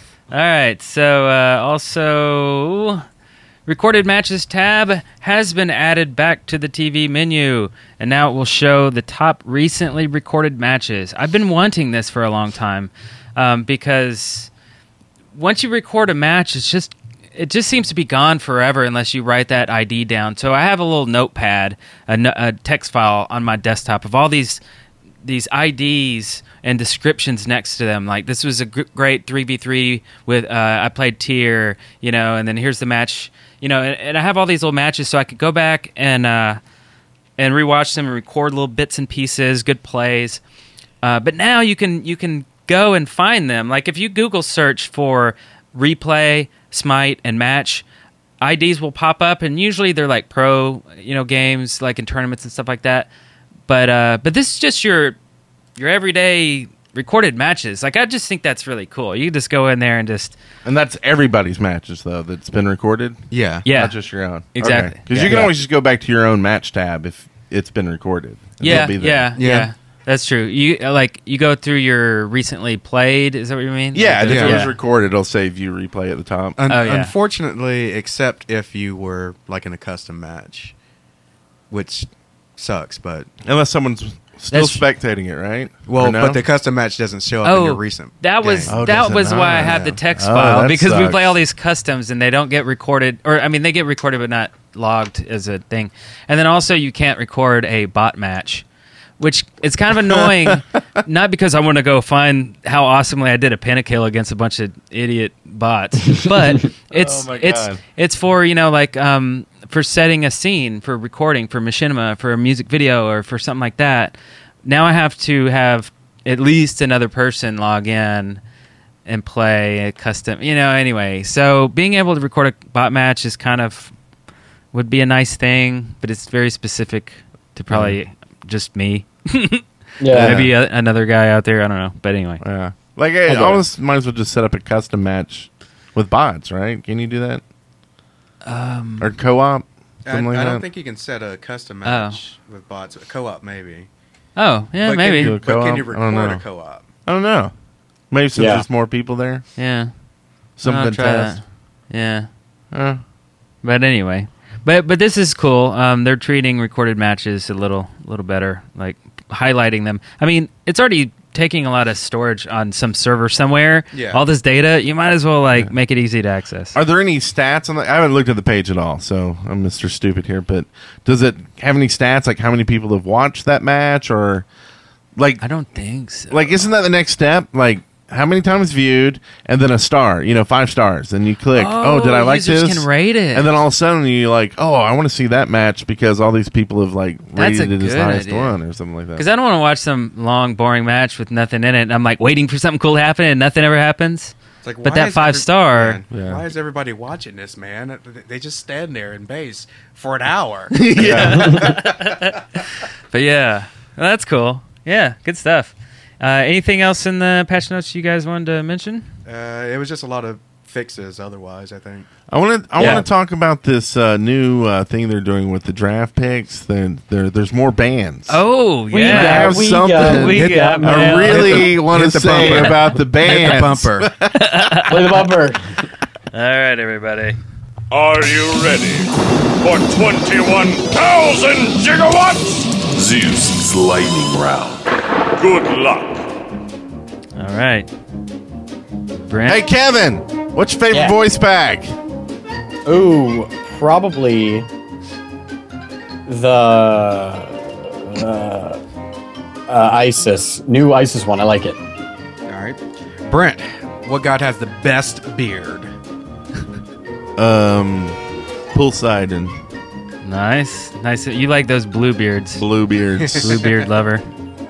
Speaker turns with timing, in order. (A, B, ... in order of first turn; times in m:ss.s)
0:00.3-0:03.0 A
0:03.6-0:14.5 A
0:15.3-0:24.6 A
0:25.2-0:36.6 A
0:37.4-0:40.4 A
0:41.0-0:47.8 A
0:48.4-0:53.1 A
0:53.7-0:55.2 A
0:55.8-1:00.4 A
1:00.6-1:09.3 B
1:03.3-1:03.6 C
1:03.6-1:04.0 A
1:04.6-1:05.5 A
1:08.6-1:14.8 A
1:09.4-1:09.7 C
1:13.9-1:16.6 B
1:14.3-1:14.6 C
1:16.6-1:20.7 C
1:16.7-1:17.1 A
1:21.7-1:23.3 C
1:23.4-1:26.4 B
1:24.5-1:24.8 A
1:25.9-1:28.7 C
1:27.4-1:38.6 A
1:28.7-1:31.4 B
1:39.2-1:58.4 A
1:40.0-1:40.5 B
1:46.9-1:47.8 B
1:59.0-2:03.9 A
2:04.7-2:12.4 A
2:07.7-2:08.0 B
2:10.0-2:10.5 D
2:10.1-2:10.5 B
2:12.4-2:17.4 B
2:13.3-2:13.6 D
2:18.4-2:19.2 A
2:19.0-2:20.6 B
2:20.0-2:23.9 C
2:21.8-2:22.2 A
2:24.4-2:25.4 A
2:24.8-2:26.8 C
2:25.2-2:26.4 B
2:27.0-2:27.5 B
2:28.1-2:29.4 B
2:28.4-2:28.6 D
2:29.6-2:29.9 A
2:30.6-2:31.4 B
2:30.6-2:32.3 A
2:32.7-2:33.0 B
2:33.6-2:46.8 A
2:43.9-2:44.2 C
2:45.5-2:45.7 B
2:46.7-2:54.4 B
2:55.2-2:55.4 B
2:55.4-2:56.4 A
2:56.3-3:09.2 B
3:01.5-3:03.5 A
3:07.4-3:08.6 A
3:09.2-3:16.0 A
3:14.6-3:21.9 C
3:16.1-3:16.4 B
3:20.7-3:21.8 B
3:21.0-3:22.4 A
3:23.1-3:29.1 A
3:29.2-3:32.1 C
3:32.3-3:38.4 B
3:32.8-3:33.0 A
3:38.3-3:41.7 A
3:38.9-3:41.5 D
3:39.0-3:44.8 B
3:41.2-3:44.1 C
3:42.4-3:42.7 A
3:44.3-3:45.3 A
3:44.9-3:45.6 D
3:46.3-3:47.4 A
3:47.9-3:56.3 E
3:57.4-3:57.9 A
3:59.2-3:59.6 A
3:59.5-4:01.9 B
4:00.9-4:01.2 D
4:02.8-4:04.7 D
4:06.3-4:08.8 D
4:09.7-4:11.8 D
4:12.5-4:15.9 C
4:17.4-4:18.2 B
4:18.7-4:19.6 B
4:20.2-4:22.6 A
4:22.6-4:23.6 B
4:23.2-4:23.7 C
4:23.3-4:24.2 A